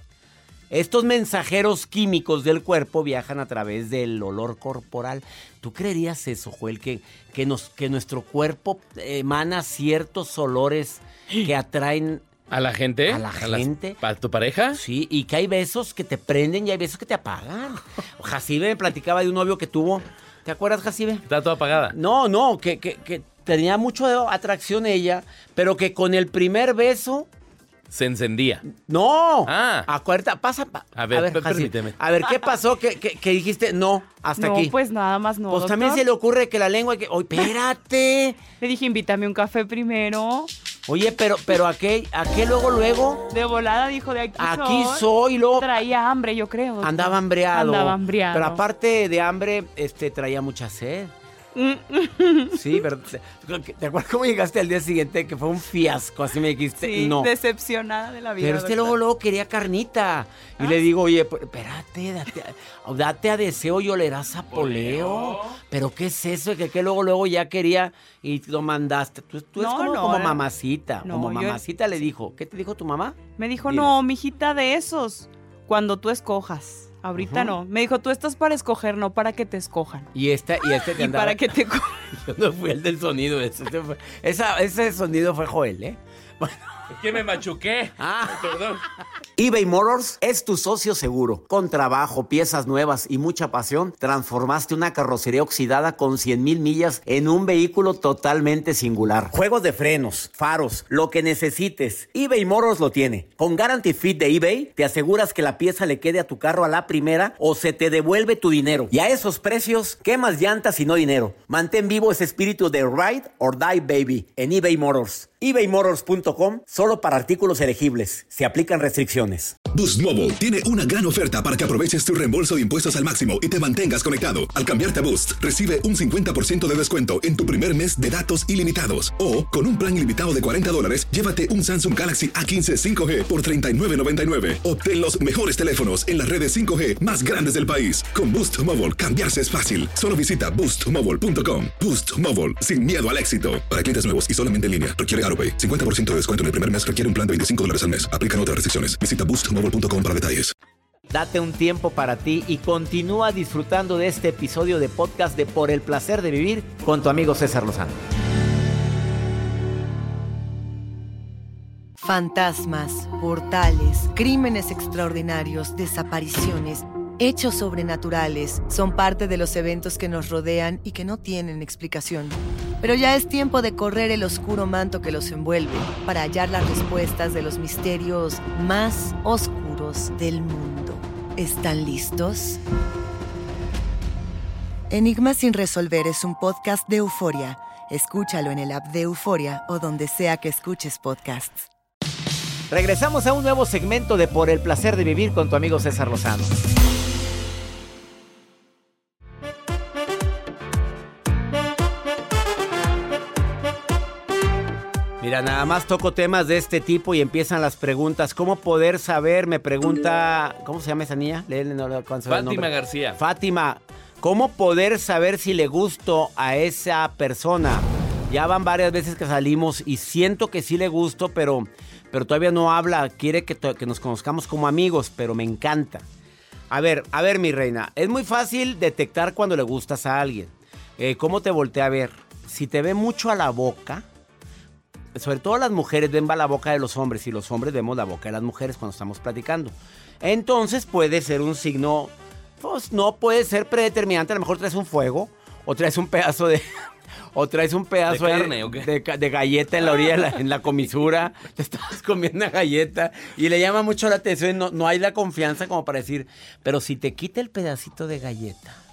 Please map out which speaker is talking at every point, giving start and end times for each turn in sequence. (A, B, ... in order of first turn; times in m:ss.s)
0:00.7-0:12.2 A
0:12.5-0:14.8 B
0:13.0-0:14.0 A
0:14.7-0:21.2 A
0:21.3-0:21.9 B
0:21.9-0:27.3 A
0:27.9-0:28.6 B
0:28.7-0:34.7 A
0:29.4-0:29.9 B
0:30.9-0:32.0 B
0:34.4-0:36.0 C
0:35.5-0:38.4 A
0:38.6-0:40.5 C
0:40.9-0:43.2 A
0:43.3-0:48.6 C
0:44.4-0:45.6 A
0:46.8-0:51.1 A
0:51.5-0:52.6 C
0:52.5-0:57.3 A
0:56.8-0:59.0 C
0:58.4-1:13.9 A
1:04.5-1:05.6 B
1:09.6-1:10.4 C
1:11.0-1:11.6 C
1:13.4-1:20.1 C
1:17.2-1:17.6 A
1:20.1-1:21.4 A
1:20.9-1:22.0 C
1:22.1-1:26.6 A
1:26.9-1:28.8 B
1:28.0-1:28.5 A
1:29.4-1:59.5 A
1:59.7-2:30.5 D
2:31.1-2:38.0 A
2:42.0-3:02.6 E
3:04.9-3:11.7 E
3:12.7-3:16.6 A
3:25.2-3:46.0 A
3:32.3-3:33.2 B
3:46.7-3:54.0 A
3:55.1-4:06.6 A
4:07.3-4:18.8 A
4:08.1-4:08.9 B